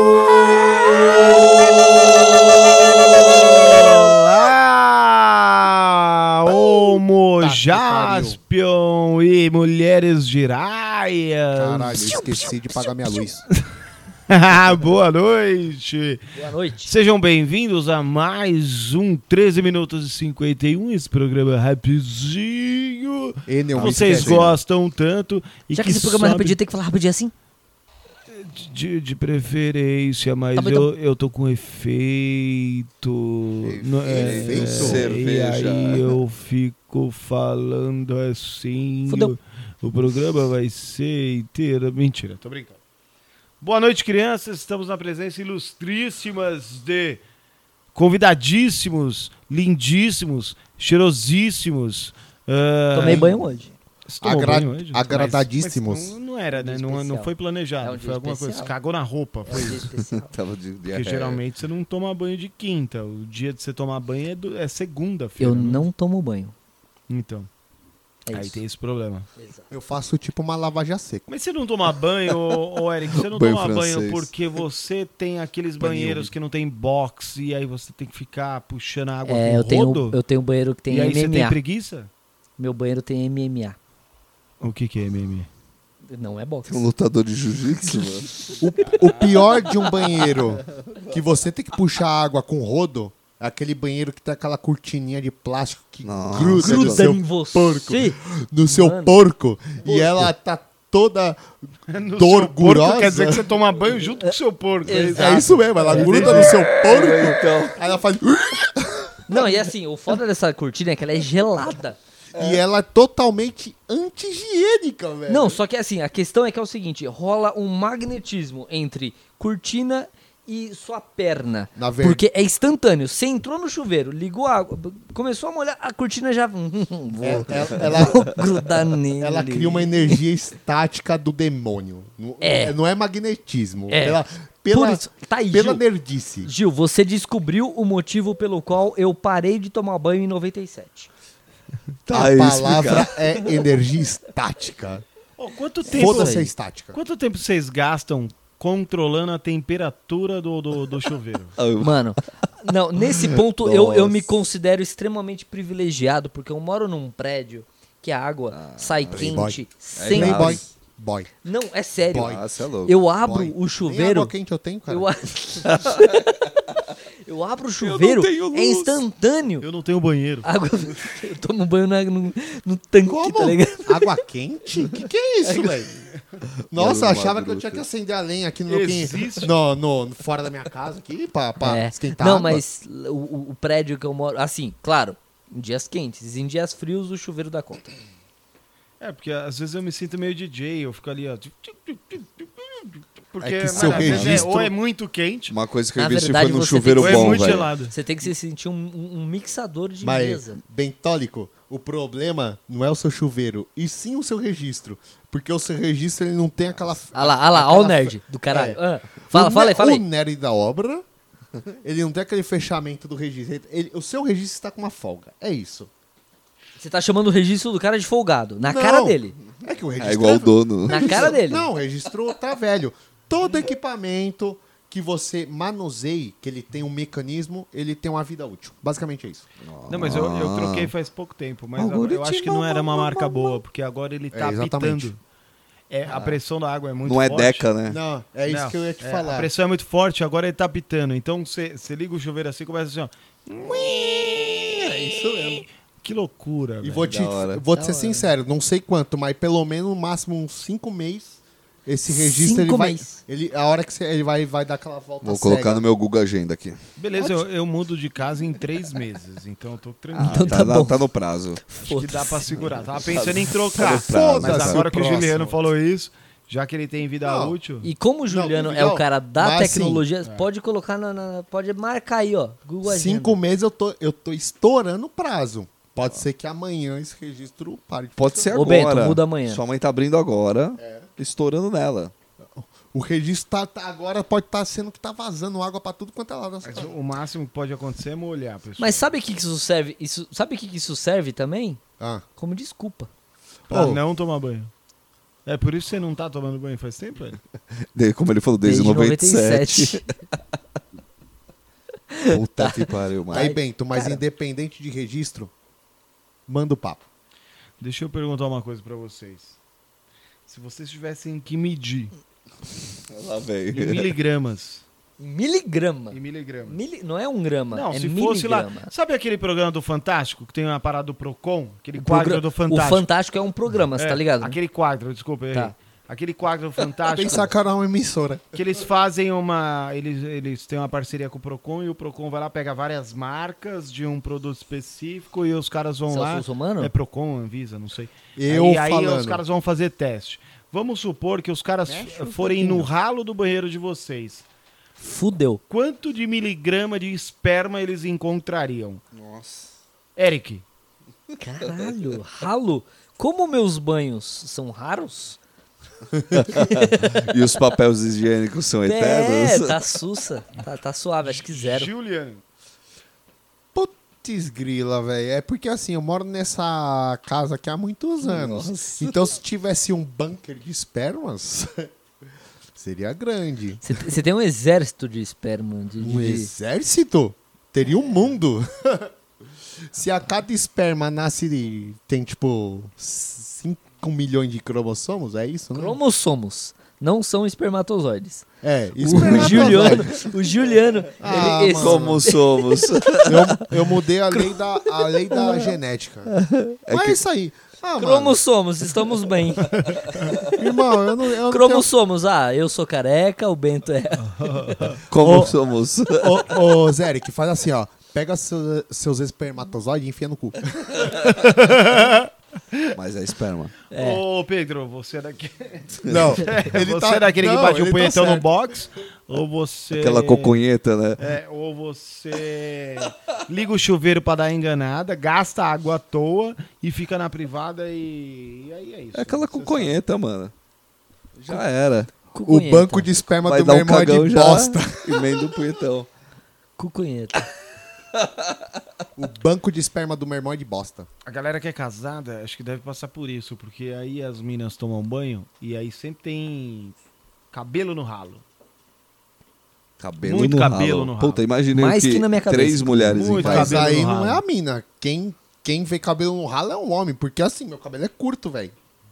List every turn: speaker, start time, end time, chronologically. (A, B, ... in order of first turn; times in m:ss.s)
0:00.9-0:02.1 A
0:02.7-0:12.3 A
0:07.4-0:08.4 B
0:11.5-0:13.4 B
0:14.3-0:16.2 A
0:16.3-0:16.9 C
0:16.8-0:26.6 A
0:23.4-0:24.6 B
0:23.7-0:24.5 D
0:25.7-0:27.3 C
0:28.3-0:42.8 A
0:30.6-0:30.9 C
0:33.6-0:36.1 D
0:34.0-0:35.1 B
0:39.1-0:39.3 C
0:43.6-0:47.2 A
0:47.9-0:53.3 A
0:52.9-0:53.7 C
0:53.0-0:53.5 B
0:54.1-0:59.8 A
0:54.2-0:56.2 B
0:56.5-0:58.7 C
0:59.4-1:00.3 C
0:59.5-1:01.4 D
1:00.8-1:05.8 A
1:05.4-1:06.5 C
1:07.1-1:07.5 A
1:08.2-1:08.6 C
1:08.3-1:09.3 A
1:09.4-1:09.7 C
1:09.7-1:11.3 B
1:11.3-1:20.2 A
1:13.1-1:14.3 D
1:15.8-1:16.3 D
1:19.2-1:21.6 C
1:20.9-1:22.1 A
1:22.6-1:23.8 C
1:24.6-1:25.5 A
1:26.1-1:26.9 C
1:26.6-1:28.4 D
1:27.8-1:28.5 C
1:28.6-1:41.5 B
1:36.0-1:37.1 D
1:36.6-1:39.2 C
1:39.8-1:40.3 D
1:41.9-1:46.6 A
1:42.2-1:43.4 B
1:44.8-1:46.5 C
1:45.1-1:49.3 B
1:46.2-1:47.8 D
1:49.3-1:52.0 C
1:52.3-1:52.6 D
1:52.4-1:55.6 B
1:55.3-2:10.2 C
2:01.7-2:02.2 B
2:07.2-2:08.4 B
2:09.2-2:16.5 B
2:12.4-2:12.8 C
2:13.9-2:15.9 C
2:16.4-2:21.1 C
2:22.0-2:23.1 D
2:22.1-2:25.0 B
2:25.4-2:31.6 A
2:25.9-2:27.0 B
2:25.9-2:26.5 C
2:31.6-2:32.1 D
2:31.8-2:40.6 C
2:33.0-2:34.3 D
2:38.5-2:39.4 D
2:39.1-2:41.3 B
2:40.0-2:40.6 D
2:41.4-2:44.3 C
2:42.0-2:42.4 B
2:42.1-2:43.0 D
2:43.2-2:45.1 B
2:44.9-2:46.6 C
2:45.7-2:46.4 D
2:47.2-2:49.7 C
2:47.8-2:49.0 D
2:49.6-2:50.5 A
2:50.4-2:54.2 C
2:53.0-2:55.9 B
2:55.4-2:56.1 A
2:56.7-2:57.8 D
2:56.7-3:02.6 B
2:58.7-2:59.5 A
3:01.6-3:07.9 C
3:09.0-3:15.5 A
3:13.4-3:14.7 B
3:13.7-3:14.5 D
3:15.5-3:17.7 D
3:16.0-3:20.6 C
3:16.9-3:17.9 A
3:20.0-3:31.0 B
3:27.1-3:30.0 C
3:31.8-3:35.9 B
3:36.8-3:39.4 C
3:38.6-3:49.4 B
3:40.0-3:41.3 D
3:40.9-3:41.7 C
3:49.6-3:50.9 D
3:49.9-3:55.2 A
3:51.8-3:53.4 D
3:54.3-3:55.1 B
3:55.9-3:57.7 A
3:56.1-3:56.3 D
3:57.0-3:58.0 D
3:57.8-3:59.5 B
3:58.4-4:04.0 A
4:03.5-4:05.6 B
4:05.4-4:07.2 A
4:06.8-4:15.9 B
4:07.1-4:07.6 D
4:07.7-4:08.3 C
4:12.1-4:13.2 C
4:15.2-4:16.8 D
4:17.0-4:20.6 A
4:20.1-4:21.6 D
4:20.2-4:21.1 C
4:21.6-4:22.4 C
4:21.8-4:27.9 A
4:22.5-4:25.2 D
4:23.7-4:25.4 B
4:27.2-4:27.6 B
4:27.8-4:33.4 C
4:28.2-4:30.0 B
4:32.8-4:38.6 B
4:38.2-4:42.1 D
4:38.5-4:39.6 C
4:40.8-4:41.1 B
4:42.5-4:47.0 B
4:46.6-4:49.1 A
4:48.8-4:51.8 C
4:52.0-4:52.2 B
4:52.4-4:53.1 C
4:53.7-4:54.0 B
4:53.7-4:54.7 A
4:55.4-4:57.4 A
4:57.9-5:00.0 D
4:58.6-5:00.0 C
5:02.1-5:02.7 C
5:02.2-5:05.5 B
5:02.7-5:03.5 D
5:03.3-5:04.2 C
5:06.5-5:07.0 B
5:07.8-5:09.6 A
5:10.5-5:12.1 A
5:13.1-5:14.1 D
5:13.7-5:14.8 A
5:15.2-5:18.9 C
5:16.1-5:16.8 A
5:17.7-5:23.1 A
5:22.0-5:24.6 C
5:23.9-5:27.4 A
5:27.1-5:28.5 B
5:27.2-5:27.5 C
5:28.5-5:44.4 A
5:36.1-5:36.9 C
5:38.4-5:39.4 B
5:41.8-5:42.9 B
5:45.0-5:45.6 C
5:45.7-5:49.0 A
5:49.2-5:49.7 D
5:50.2-5:50.6 A
5:51.4-5:55.4 C
5:56.3-5:59.8 D
5:56.6-5:57.2 C
5:58.8-6:01.9 C
6:01.2-6:02.4 A
6:03.7-6:11.9 B
6:08.2-6:09.2 D
6:12.7-6:13.9 B
6:13.8-6:16.5 C
6:16.0-6:19.1 B
6:19.9-6:26.0 B
6:25.7-6:28.4 C
6:28.6-6:30.2 B
6:29.1-6:30.0 D
6:29.1-6:32.8 C
6:31.2-6:32.3 B
6:31.2-6:33.6 D
6:33.2-6:36.3 B
6:36.4-6:37.2 D
6:36.9-6:38.4 B
6:38.0-6:40.6 C
6:40.5-6:41.9 B
6:41.4-6:44.8 C
6:44.2-6:45.0 A
6:45.1-6:46.4 D
6:45.2-6:45.5 B
6:46.2-6:51.0 B
6:51.2-6:52.8 A
6:52.9-6:53.7 D
6:53.9-6:54.2 C
6:53.9-7:00.6 A
6:56.0-6:58.5 B
6:59.9-7:01.2 D
7:01.2-7:10.0 A
7:09.1-7:10.5 D
7:11.4-7:12.1 D
7:12.3-7:13.1 C
7:12.4-7:15.3 B
7:13.4-7:16.1 D
7:16.8-7:17.4 C
7:19.2-7:21.1 B
7:21.2-7:27.0 A
7:27.5-7:28.4 A
7:30.0-7:34.0 D
7:30.2-7:31.4 A
7:31.7-7:33.6 C
7:33.2-7:34.4 A
7:33.4-7:38.7 B